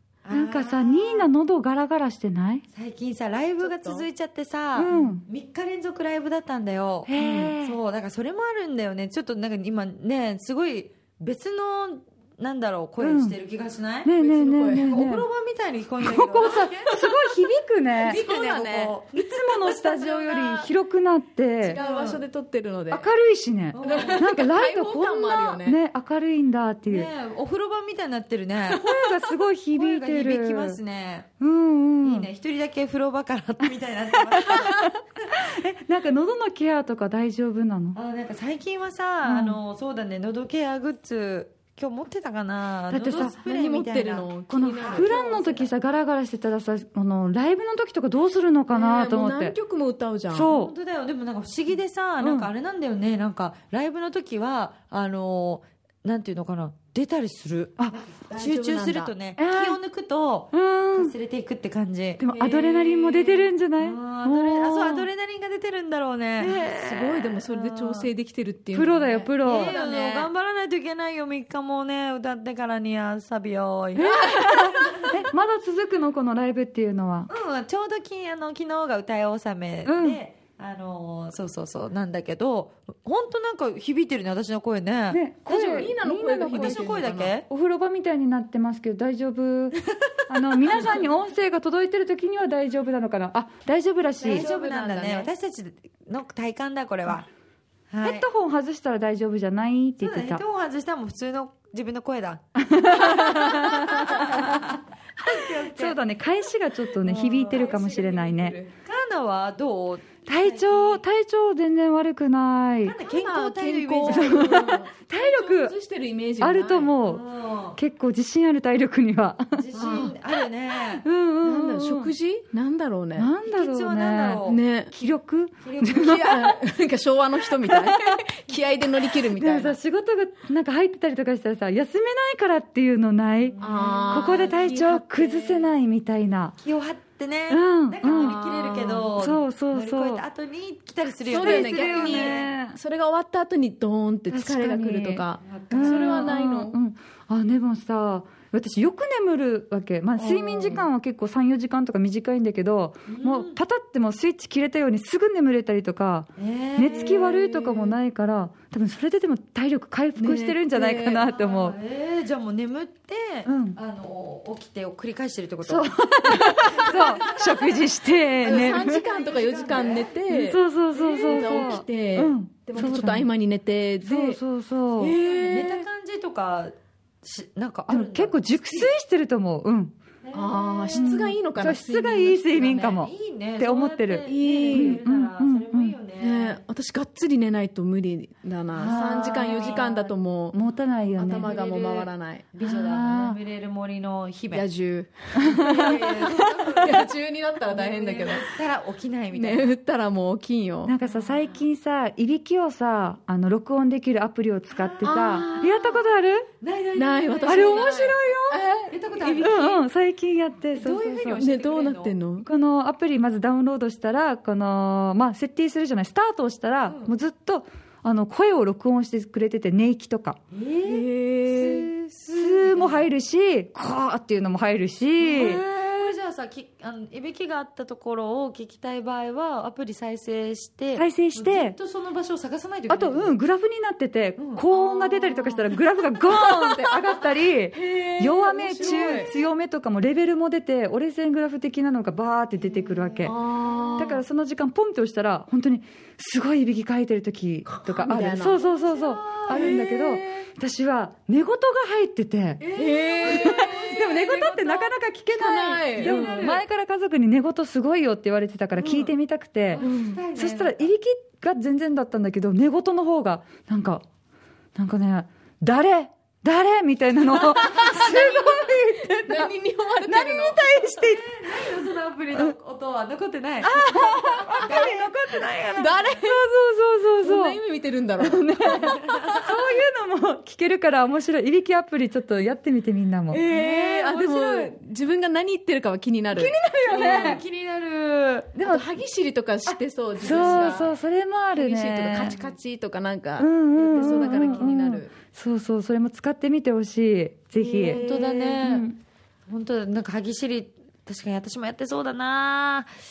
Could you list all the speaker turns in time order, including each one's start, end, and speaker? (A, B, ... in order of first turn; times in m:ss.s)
0:00.2-0:01.3 A
0:00.3-0:02.6 B
0:02.7-0:14.1 A
0:03.6-0:04.1 C
0:04.7-0:05.2 B
0:07.0-0:07.8 B
0:13.0-0:13.4 B
0:14.0-0:15.2 B
0:14.1-0:14.9 C
0:14.9-0:16.7 A
0:16.0-0:18.2 B
0:16.4-0:17.0 C
0:18.0-0:19.0 C
0:18.1-0:19.8 A
0:19.1-0:21.8 B
0:19.7-0:20.7 C
0:21.6-0:23.1 C
0:21.8-0:22.2 A
0:22.9-0:27.1 B
0:23.7-0:24.2 A
0:23.8-0:25.8 C
0:26.8-0:29.2 A
0:28.7-0:30.8 B
0:29.7-0:31.3 A
0:31.4-0:32.3 B
0:32.0-0:34.9 A
0:33.6-0:38.0 B
0:37.9-0:44.3 A
0:39.2-0:39.6 B
0:42.9-0:43.4 B
0:43.4-0:45.7 C
0:44.5-0:49.5 B
0:48.7-0:50.5 C
0:50.3-0:50.7 B
0:50.4-1:08.1 A
0:52.2-0:52.5 B
0:58.2-0:59.2 C
0:59.4-0:59.8 B
1:00.5-1:01.1 B
1:02.2-1:05.1 B
1:02.3-1:02.6 C
1:06.4-1:10.3 C
1:08.7-1:09.8 B
1:09.4-1:15.2 A
1:14.0-1:17.3 B
1:17.3-1:27.5 A
1:19.8-1:20.2 B
1:25.1-1:29.8 B
1:25.7-1:27.4 C
1:30.3-1:34.5 B
1:30.5-1:31.0 A
1:34.2-1:35.3 C
1:34.2-1:37.3 A
1:37.9-1:38.2 A
1:38.0-1:40.4 B
1:40.0-1:46.0 A
1:42.6-1:44.7 B
1:45.2-1:48.6 B
1:47.0-1:48.7 C
1:47.1-1:47.9 A
1:48.8-1:51.0 A
1:50.2-1:53.0 B
1:52.8-1:54.8 A
1:53.1-1:56.9 C
1:54.0-1:55.7 B
1:56.4-1:57.2 B
1:57.0-1:57.8 A
1:57.8-1:59.6 B
1:59.5-2:01.0 A
1:59.7-2:00.2 C
2:01.0-2:02.1 B
2:01.4-2:03.3 C
2:03.2-2:06.5 B
2:03.4-2:04.6 A
2:04.5-2:04.9 C
2:05.6-2:06.4 A
2:06.0-2:09.8 C
2:07.6-2:07.9 B
2:09.3-2:16.6 B
2:13.4-2:14.5 A
2:13.6-2:15.7 C
2:16.6-2:22.5 A
2:17.5-2:18.4 B
2:18.0-2:19.1 C
2:19.2-2:20.2 B
2:21.2-2:26.8 C
2:21.3-2:22.8 B
2:24.3-2:41.8 B
2:25.4-2:26.4 A
2:30.2-2:30.9 C
2:33.1-2:33.6 A
2:36.4-2:37.5 A
2:36.8-2:37.8 C
2:40.2-2:41.3 C
2:41.3-2:50.1 A
2:43.4-2:43.8 B
2:45.6-2:49.0 B
2:48.4-2:54.4 C
2:50.3-2:53.3 B
2:51.0-2:51.8 A
2:54.0-2:55.2 B
2:55.0-2:55.9 C
2:55.2-2:58.9 A
2:57.9-2:59.9 B
3:00.2-3:01.1 A
3:00.3-3:02.5 C
3:01.0-3:06.0 B
3:02.5-3:06.6 A
3:04.3-3:05.0 C
3:06.2-3:10.6 C
3:08.8-3:09.8 B
3:08.8-3:10.1 A
3:10.5-3:11.5 B
3:11.1-3:12.5 C
3:11.3-3:14.7 A
3:12.6-3:13.4 B
3:14.5-3:18.5 C
3:15.4-3:16.4 B
3:15.5-3:19.7 A
3:19.3-3:20.9 C
3:20.8-3:26.5 B
3:21.0-3:21.7 A
3:24.7-3:25.9 A
3:25.0-3:26.0 C
3:26.6-3:28.2 A
3:26.9-3:29.8 C
3:27.4-3:28.6 B
3:28.9-3:29.7 A
3:29.4-3:31.5 B
3:30.7-3:32.1 A
3:31.4-3:32.5 C
3:32.4-3:40.4 B
3:36.8-3:37.2 A
3:40.5-3:43.1 A
3:40.8-3:41.9 C
3:42.3-3:46.1 B
3:45.2-3:53.4 A
3:50.9-3:51.8 B
3:52.9-4:03.3 B
3:54.4-3:54.6 A
3:54.7-3:55.7 C
3:57.7-3:59.3 C
3:58.7-3:59.3 A
4:02.6-4:04.2 A
4:03.3-4:04.2 C
4:04.0-4:12.6 B
4:07.6-4:08.6 C
4:08.5-4:10.0 A
4:09.5-4:10.2 C
4:12.6-4:14.6 C
4:12.7-4:14.2 A
4:13.2-4:24.0 B
4:15.3-4:16.6 C
4:16.0-4:16.6 A
4:19.7-4:20.9 A
4:19.8-4:20.2 C
4:24.7-4:29.5 B
4:27.6-4:30.6 C
4:30.0-4:31.6 B
4:30.8-4:33.9 A
4:33.6-4:37.6 B
4:34.4-4:36.0 A
4:35.7-4:36.5 C
4:37.2-4:39.5 C
4:38.2-4:43.4 B
4:43.3-4:47.4 C
4:43.4-4:44.7 A
4:46.3-4:47.4 B
4:46.8-4:48.6 A
4:48.6-4:48.9 B
4:48.6-4:50.9 C
4:49.6-4:52.4 B
4:50.2-4:50.9 A
4:51.6-4:55.1 C
4:53.4-4:58.1 B
4:54.0-4:54.7 A
4:57.6-4:58.6 C
4:57.8-4:58.8 A
4:58.6-4:59.0 B
4:59.5-5:02.9 A